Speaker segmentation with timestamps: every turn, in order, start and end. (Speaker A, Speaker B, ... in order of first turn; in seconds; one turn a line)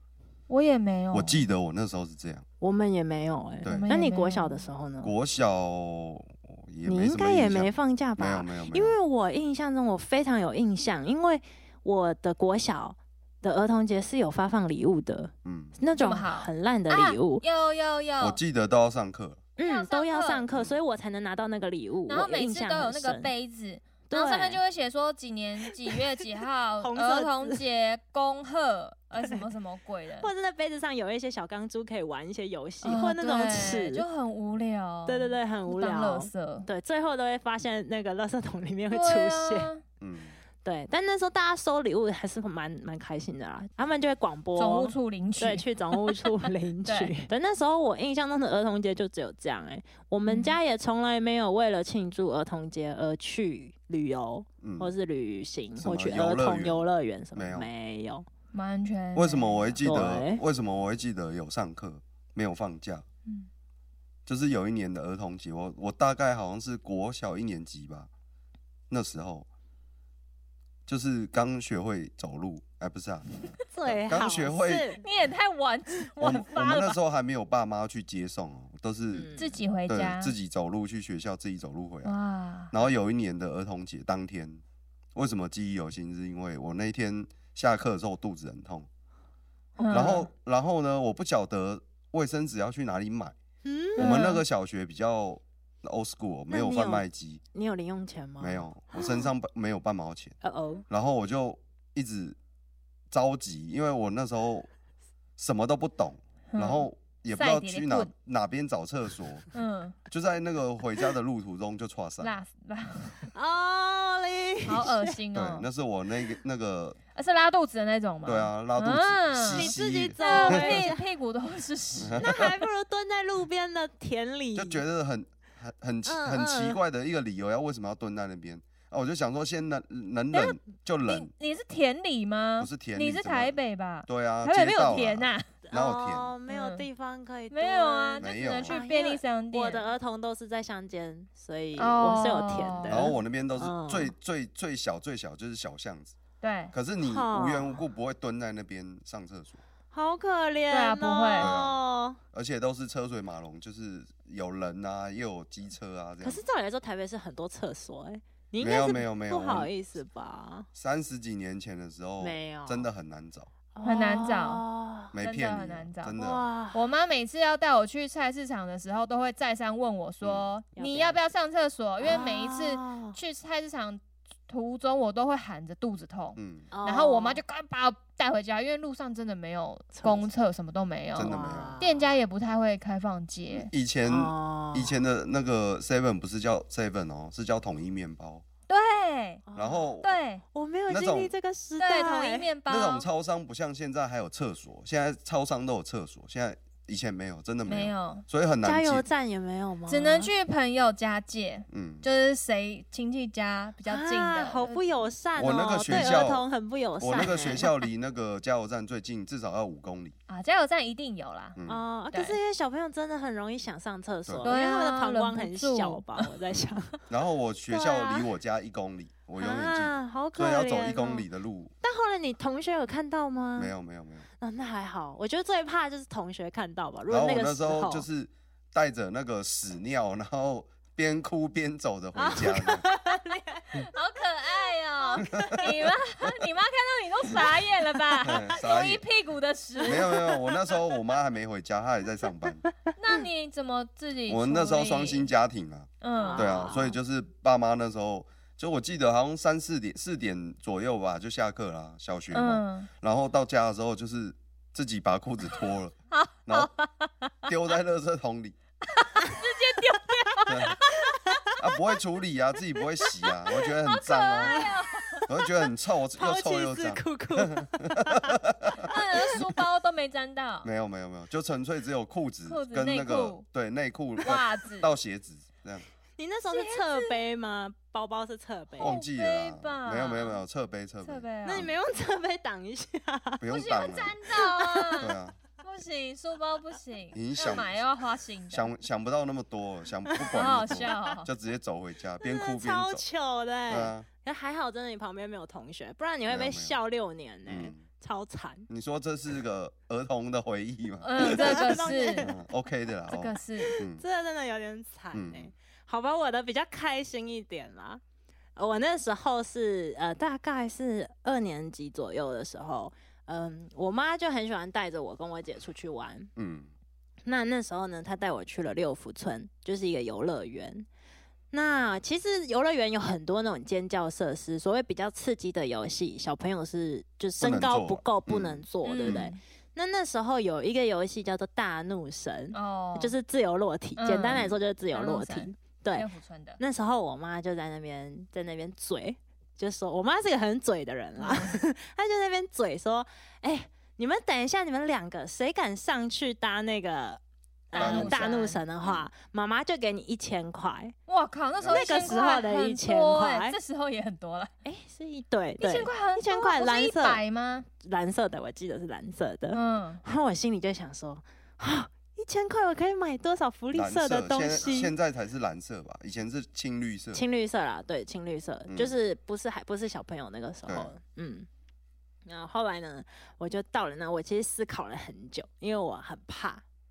Speaker A: 0.5-1.5
Speaker B: 1.1-2.4
Speaker C: 2.6-5.1
Speaker B: 3.6-3.9
Speaker A: 3.6-4.7
Speaker B: 5.0-8.9
Speaker C: 6.8-17.4
Speaker B: 15.4-15.7
Speaker A: 15.9-18.4
Speaker B: 18.2-19.4
Speaker C: 19.6-23.3
Speaker A: 19.6-20.4
Speaker A: 22.1-30.3
Speaker C: 24.1-24.6
Speaker C: 25.6-26.2
Speaker C: 26.8-27.6
Speaker C: 30.2-34.0
Speaker A: 32.8-36.7
Speaker C: 35.0-39.7
Speaker A: 38.9-39.8
Speaker B: 40.0-40.4
Speaker C: 40.6-58.2
Speaker A: 44.6-47.1
Speaker A: 50.3-50.5
Speaker B: 54.6-54.9
Speaker B: 55.8-56.8
Speaker B: 57.4-57.7
Speaker A: 58.5-59.8
Speaker B: 59.1-63.0
Speaker C: 59.8-60.4
Speaker B: 64.2-68.1
Speaker B: 68.9-69.5
Speaker B: 70.9-73.3
Speaker C: 73.7-75.0
Speaker B: 73.9-74.9
Speaker A: 75.0-77.0
Speaker B: 76.2-79.3
Speaker C: 79.1-79.6
Speaker A: 79.3-80.3
Speaker B: 79.9-82.1
Speaker A: 82.0-82.7
Speaker B: 82.7-84.6
Speaker B: 85.1-88.9
Speaker C: 89.8-90.2
Speaker A: 89.8-90.2
Speaker B: 89.9-93.3
Speaker C: 93.6-94.2
Speaker B: 94.0-97.4
Speaker A: 94.0-94.4
Speaker C: 96.5-99.3
Speaker B: 98.4-100.3
Speaker C: 100.4-100.8
Speaker B: 100.9-102.4
Speaker B: 103.1-104.7
Speaker B: 105.4-109.5
Speaker A: 106.5-108.1
Speaker A: 109.5-110.0
Speaker B: 110.1-112.4
Speaker A: 112.2-113.3
Speaker C: 113.3-115.2
Speaker A: 114.6-115.7
Speaker B: 115.3-117.0
Speaker A: 117.1-122.3
Speaker B: 118.2-120.9
Speaker C: 119.5-121.0
Speaker B: 122.0-122.5
Speaker C: 122.2-124.8
Speaker B: 124.5-131.3
Speaker C: 126.0-126.8
Speaker A: 130.3-135.5
Speaker B: 132.6-136.3
Speaker C: 135.7-144.1
Speaker A: 136.5-136.8
Speaker A: 137.5-139.8
Speaker B: 138.2-138.8
Speaker A: 141.8-143.1
Speaker B: 142.9-146.1
Speaker A: 146.4-146.7
Speaker B: 146.7-149.6
Speaker C: 147.0-147.8
Speaker C: 149.9-152.2
Speaker A: 150.7-151.5
Speaker B: 151.4-151.8
Speaker B: 152.3-156.4
Speaker C: 156.2-160.7
Speaker B: 158.6-159.7
Speaker B: 160.7-163.5
Speaker C: 162.2-162.9
Speaker C: 163.7-165.1
Speaker A: 163.8-164.6
Speaker B: 165.1-166.4
Speaker A: 165.2-166.2
Speaker C: 166.2-166.9
Speaker A: 166.7-183.7
Speaker B: 170.2-170.5
Speaker C: 170.7-171.2
Speaker C: 172.0-173.2
Speaker B: 176.3-176.7
Speaker C: 176.7-177.4
Speaker C: 179.9-180.3
Speaker B: 181.1-181.8
Speaker C: 181.2-182.1
Speaker B: 183.5-188.4
Speaker C: 184.0-184.9
Speaker A: 188.7-189.4
Speaker C: 189.5-189.9
Speaker B: 189.6-190.1
Speaker A: 190.0-190.4
Speaker C: 190.5-192.5
Speaker B: 190.9-191.3
Speaker A: 191.8-193.1
Speaker B: 192.7-199.0
Speaker A: 197.7-198.2
Speaker C: 198.6-200.3
Speaker A: 199.9-204.9
Speaker B: 201.7-202.0
Speaker C: 203.8-207.7
Speaker B: 205.4-206.4
Speaker A: 205.9-206.2
Speaker B: 207.0-210.1
Speaker A: 210.3-211.6
Speaker B: 211.6-211.8
Speaker C: 211.7-217.0
Speaker A: 212.1-212.4
Speaker A: 214.4-216.3
Speaker B: 217.1-221.7
Speaker C: 217.7-218.2
Speaker C: 219.4-221.2
Speaker C: 221.8-223.7
Speaker B: 223.6-224.2
Speaker C: 224.4-228.1
Speaker B: 227.1-232.8
Speaker C: 232.1-233.6
Speaker A: 233.3-240.4
Speaker C: 235.1-235.7
Speaker B: 235.2-235.8
Speaker B: 238.2-239.0
Speaker B: 239.8-242.6
Speaker C: 239.9-240.2
Speaker A: 242.9-245.3
Speaker B: 244.3-255.9
Speaker A: 246.0-246.7
Speaker C: 246.1-246.9
Speaker A: 252.3-252.9
Speaker A: 256.1-257.3
Speaker B: 257.4-258.6
Speaker A: 258.9-261.4
Speaker C: 259.2-259.5
Speaker C: 260.0-261.5
Speaker B: 260.5-260.8
Speaker B: 261.6-264.6
Speaker C: 263.1-263.3
Speaker A: 263.6-265.2
Speaker C: 264.4-265.3
Speaker B: 265.3-269.4
Speaker C: 266.1-268.4
Speaker A: 268.8-270.7
Speaker B: 270.6-275.8
Speaker A: 272.5-273.4
Speaker A: 274.2-274.9
Speaker C: 276.2-279.0
Speaker A: 276.5-277.2
Speaker B: 278.8-281.7
Speaker A: 278.8-280.4
Speaker A: 281.0-281.7
Speaker C: 281.4-283.4
Speaker B: 283.4-284.2
Speaker A: 283.5-288.7
Speaker C: 284.3-285.0
Speaker B: 285.0-285.4
Speaker B: 287.1-287.7
Speaker B: 288.5-293.0
Speaker A: 290.2-291.3
Speaker C: 292.2-298.7
Speaker B: 293.7-294.1
Speaker B: 296.3-296.8
Speaker B: 297.4-297.8
Speaker B: 298.7-304.0
Speaker A: 301.0-302.3
Speaker C: 301.2-302.4
Speaker A: 303.1-303.8
Speaker C: 303.6-308.0
Speaker B: 305.1-305.5
Speaker C: 308.6-316.3
Speaker B: 316.4-316.7
Speaker C: 317.2-320.9
Speaker C: 321.5-336.1
Speaker B: 327.4-329.3
Speaker A: 328.8-329.4
Speaker A: 332.5-333.2
Speaker A: 334.0-336.6
Speaker C: 336.6-350.9
Speaker A: 341.2-341.6
Speaker A: 347.7-348.6
Speaker B: 347.7-349.1
Speaker A: 351.1-354.5
Speaker B: 351.6-352.1
Speaker C: 351.7-353.6
Speaker C: 354.6-357.2
Speaker A: 355.6-357.7
Speaker C: 357.8-364.9
Speaker A: 359.5-360.0
Speaker B: 363.7-367.2
Speaker C: 367.1-371.5
Speaker B: 368.7-368.9
Speaker B: 370.7-370.9
Speaker C: 372.2-376.6